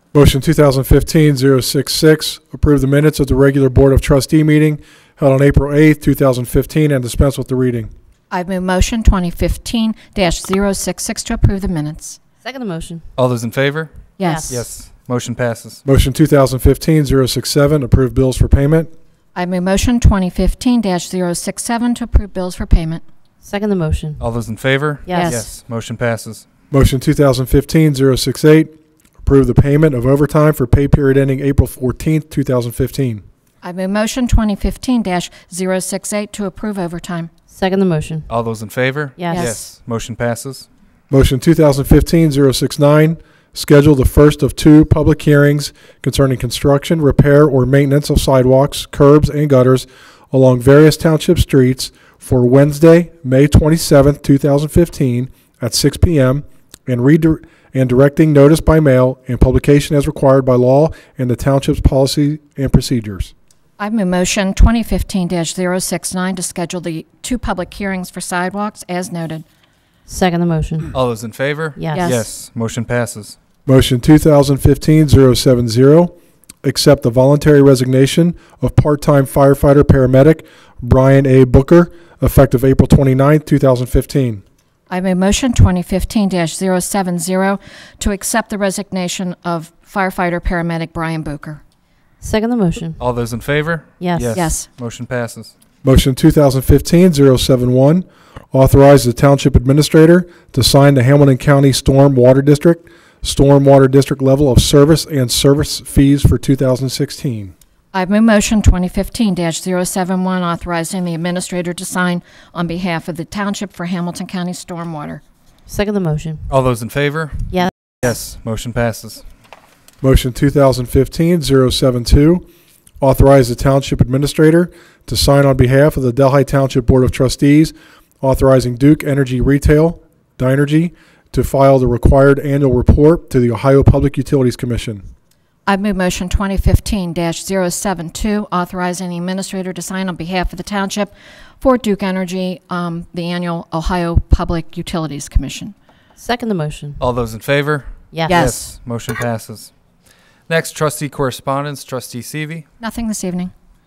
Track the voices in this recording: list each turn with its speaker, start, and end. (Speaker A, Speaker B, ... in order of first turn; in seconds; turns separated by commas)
Speaker A: 0.1-7.9, Speaker B: 8.3-12.2, Speaker C: 12.4-13.0, Speaker D: 13.2-13.9, Speaker B: 14.2-14.7, Speaker C: 14.2-14.6, Speaker D: 14.5-15.8, Speaker A: 15.8-18.9, Speaker B: 19.3-23.0, Speaker C: 23.4-24.2, Speaker D: 24.2-26.4, Speaker C: 25.1-25.4, Speaker B: 25.1-25.5, Speaker A: 26.7-28.7, Speaker A: 29.2-33.2, Speaker B: 33.6-37.3, Speaker C: 37.5-38.3, Speaker D: 38.3-40.7, Speaker C: 39.2-39.5, Speaker B: 39.3-39.8, Speaker A: 41.1-63.3, Speaker B: 63.8-69.4, Speaker C: 70.1-70.9, Speaker D: 70.9-73.3, Speaker C: 71.8-72.1, Speaker B: 71.9-72.3, Speaker A: 73.7-84.4, Speaker B: 84.9-91.6, Speaker C: 92.2-93.0, Speaker D: 93.0-95.5, Speaker C: 94.0-94.5, Speaker B: 94.3-94.7, Speaker A: 95.8-107.5, Speaker B: 107.9-115.2, Speaker C: 115.7-116.4, Speaker D: 116.5-119.2, Speaker A: 120.0-122.5, Speaker A: 123.0-135.0, Speaker B: 135.7-145.7, Speaker C: 146.2-147.0, Speaker D: 147.0-149.7, Speaker C: 148.1-148.4, Speaker B: 148.3-148.8, Speaker D: 150.5-152.7, Speaker B: 152.8-153.5